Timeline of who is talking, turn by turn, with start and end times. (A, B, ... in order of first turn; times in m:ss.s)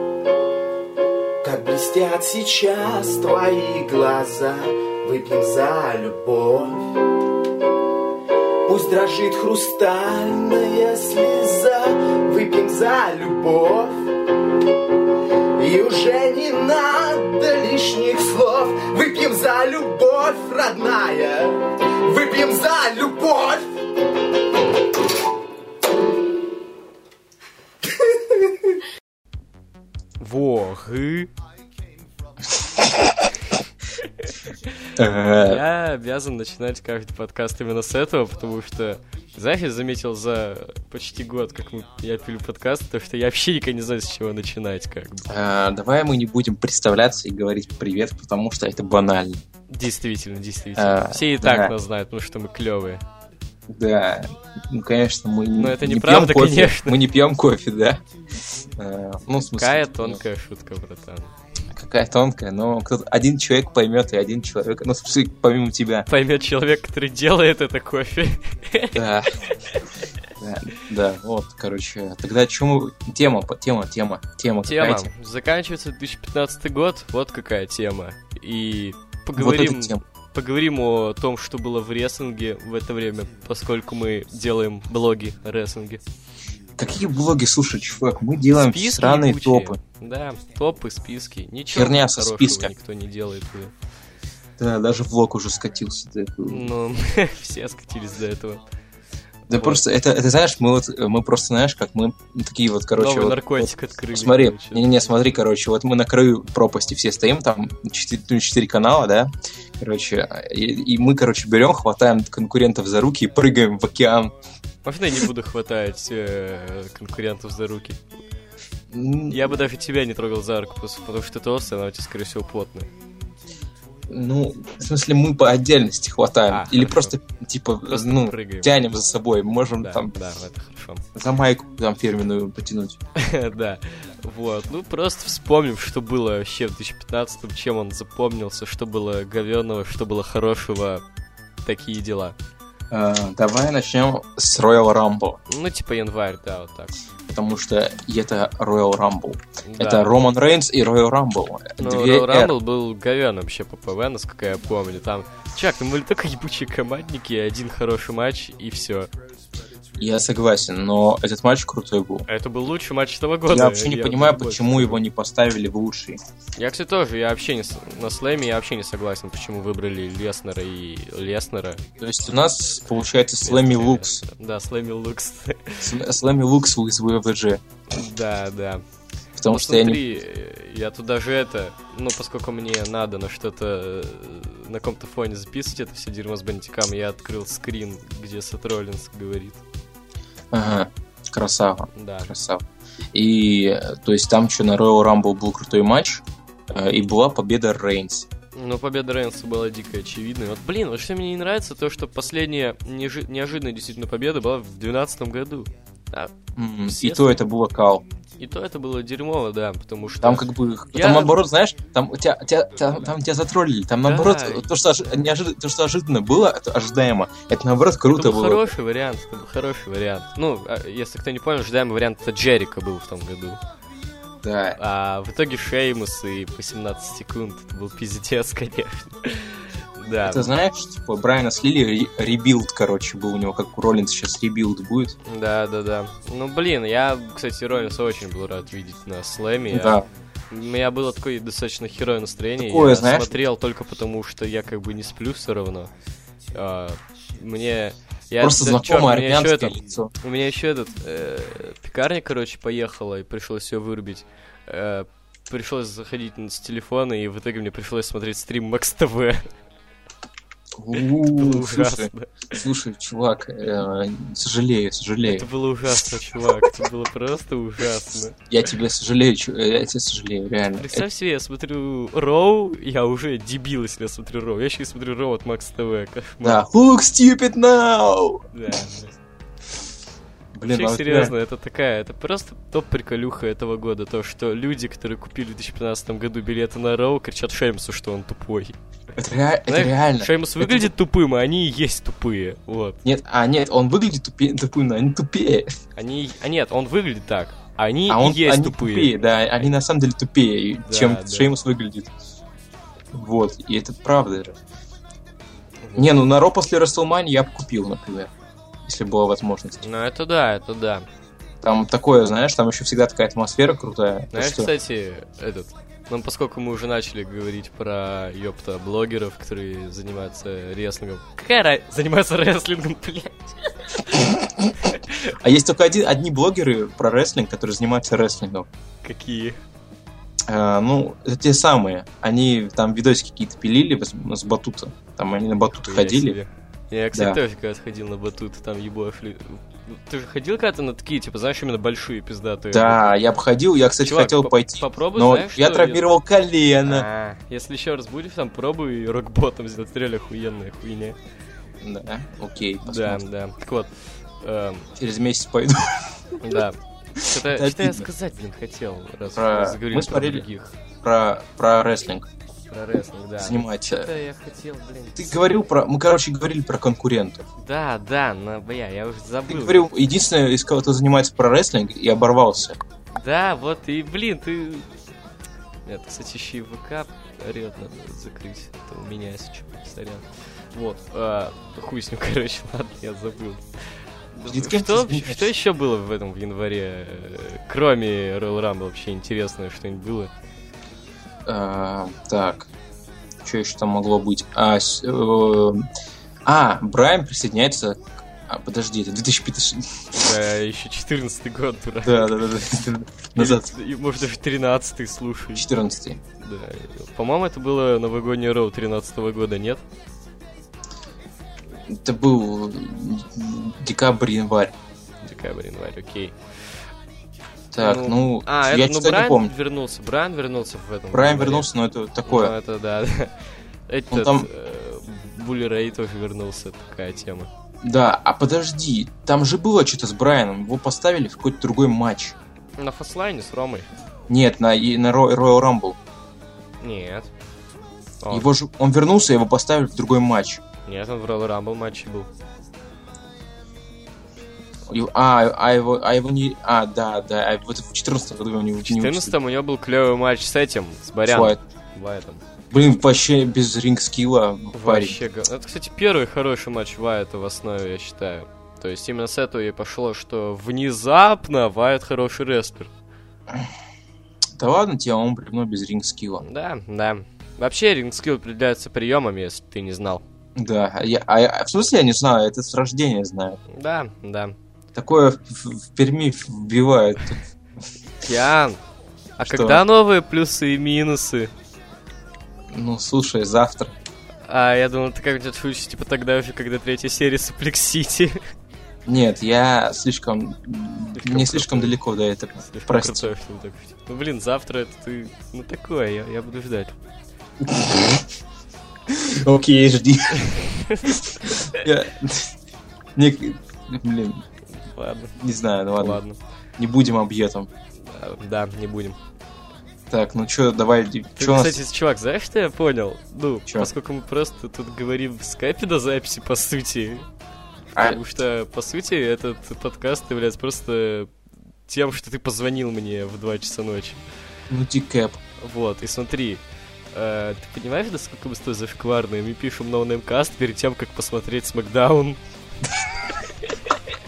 0:01.4-0:07.0 A
0:08.7-0:14.1 A
0:15.6-0:23.7 A
0:30.2-0:31.3 B
0:34.2-0:45.3 B
0:35.0-0:35.6 C
0:45.3-0:49.4 C
0:49.7-0:53.0 B
0:50.8-0:51.8 C
0:53.7-0:58.0 C
0:55.6-0:57.0 B
0:58.7-1:00.2 C
0:59.5-1:01.3 B
1:01.7-1:06.1 C
1:06.1-1:09.0 B
1:08.9-1:09.5 C
1:10.4-1:15.1 C
1:14.6-1:26.0 B
1:19.4-1:20.0 C
1:26.8-1:29.8 C
1:28.5-1:33.7 B
1:31.7-1:32.7 C
1:34.6-1:36.7 C
1:36.5-1:38.6 B
1:39.5-1:54.3 C
1:39.5-1:39.8 B
1:43.0-1:45.2 B
1:54.8-1:58.2 B
1:58.9-1:59.6 C
1:59.3-2:02.9 B
2:04.1-2:10.2 C
2:06.5-2:07.2 B
2:07.9-2:08.8 B
2:09.8-2:11.0 B
2:11.1-2:13.0 C
2:13.2-2:21.0 B
2:21.6-2:22.4 B
2:22.9-2:25.4 C
2:25.5-2:27.0 B
2:27.3-2:32.5 C
2:29.6-2:30.2 B
2:31.8-2:39.1 B
2:40.0-2:42.3 C
2:42.3-2:45.0 B
2:43.5-2:46.2 C
2:46.6-2:51.8 B
2:52.0-2:54.2 C
2:53.4-2:55.9 B
2:55.8-2:57.6 C
2:57.9-2:58.8 B
2:59.4-3:00.0 C
2:59.5-3:09.6 B
3:10.5-3:18.3 C
3:11.9-3:12.4 B
3:18.6-3:26.3 B
3:26.6-3:28.0 C
3:26.9-3:27.4 B
3:28.4-3:31.4 B
3:30.2-3:38.7 C
3:34.0-3:34.7 B
3:38.1-3:43.6 B
3:44.4-3:44.8 C
3:44.8-3:50.5 B
3:50.2-3:55.2 C
3:55.2-4:05.9 B
3:59.7-4:00.1 C
4:02.6-4:03.4 C
4:06.5-4:19.5 B
4:08.4-4:10.1 C
4:20.8-4:25.5 C
4:21.2-4:22.6 B
4:25.2-4:28.4 B
4:26.0-4:26.7 C
4:28.5-4:31.1 C
4:30.7-4:36.6 B
4:36.4-4:38.8 C
4:38.5-4:39.2 B
4:40.5-4:41.3 C
4:40.7-4:48.8 B
4:49.2-4:50.9 C
4:49.7-4:53.0 B
4:53.0-4:55.7 C
4:56.0-4:59.1 B
4:58.1-5:02.1 C
5:00.9-5:01.6 B
5:03.1-5:04.6 C
5:05.8-5:06.2 B
5:06.0-5:08.3 C
5:08.8-5:09.8 C
5:09.8-5:11.1 B
5:11.6-5:14.7 C
5:14.3-5:24.3 B
5:24.1-5:24.8 C
5:24.9-5:25.2 B
5:25.3-5:28.7 C
5:29.0-5:29.6 B
5:30.5-5:36.4 C
5:35.8-5:43.2 B
5:37.1-5:37.4 C
5:42.7-5:47.1 C
5:44.0-5:46.0 B
5:46.8-5:51.2 B
5:51.8-5:53.2 C
5:52.9-5:54.9 B
5:55.0-5:56.1 C
5:56.4-6:00.8 B
5:57.2-5:58.1 C
5:59.4-6:00.5 C
6:01.0-6:02.3 C
6:02.7-6:05.4 B
6:03.4-6:04.1 C
6:05.2-6:07.4 C
6:07.6-6:09.9 B
6:09.5-6:12.8 C
6:13.1-6:14.9 B
6:15.9-6:30.3 B
6:24.5-6:25.5 C
6:31.5-6:32.7 C
6:33.4-6:35.9 C
6:36.4-6:40.3 C
6:40.1-6:42.4 B
6:42.0-6:43.7 C
6:43.4-6:45.7 B
6:45.6-6:46.2 C
6:46.4-6:49.8 B
6:51.9-6:54.8 C
6:55.2-6:56.4 B
6:57.7-6:59.5 C
6:57.8-7:01.7 B
7:01.1-7:02.6 C
7:02.3-7:03.4 B
7:03.9-7:07.5 B
7:04.1-7:04.5 C
7:07.8-7:12.4 C
7:12.8-7:13.9 B
7:14.3-7:16.0 C
7:16.8-7:17.3 B
7:18.2-7:18.5 B
7:18.3-7:20.6 C
7:20.9-7:22.3 B
7:24.9-7:29.4 C
7:28.9-7:32.4 B
7:31.2-7:31.6 C
7:32.7-7:35.2 C
7:34.7-7:42.9 B
7:44.6-7:46.4 C
7:46.4-7:50.2 B
7:50.6-7:53.6 C
7:53.7-7:54.6 B
7:55.0-7:57.4 C
7:58.2-7:58.8 B
7:59.4-8:01.5 B
7:59.4-7:59.8 C
8:02.7-8:03.9 C
8:04.5-8:08.4 B
8:09.1-8:13.3 C
8:11.2-8:12.0 B
8:12.6-8:17.0 B
8:17.6-8:18.2 C
8:19.1-8:22.5 C
8:20.4-8:21.8 B
8:23.2-8:24.4 C
8:24.8-8:25.4 B
8:25.4-8:26.2 C
8:26.0-8:26.4 B
8:26.8-8:27.7 C
8:28.0-8:29.2 B
8:30.1-8:31.8 C
8:31.4-8:37.3 B
8:38.0-8:38.2 C
8:38.0-8:41.3 B
8:41.9-8:44.2 B
8:44.7-8:45.4 C
8:45.6-8:52.4 B
8:53.4-8:54.0 B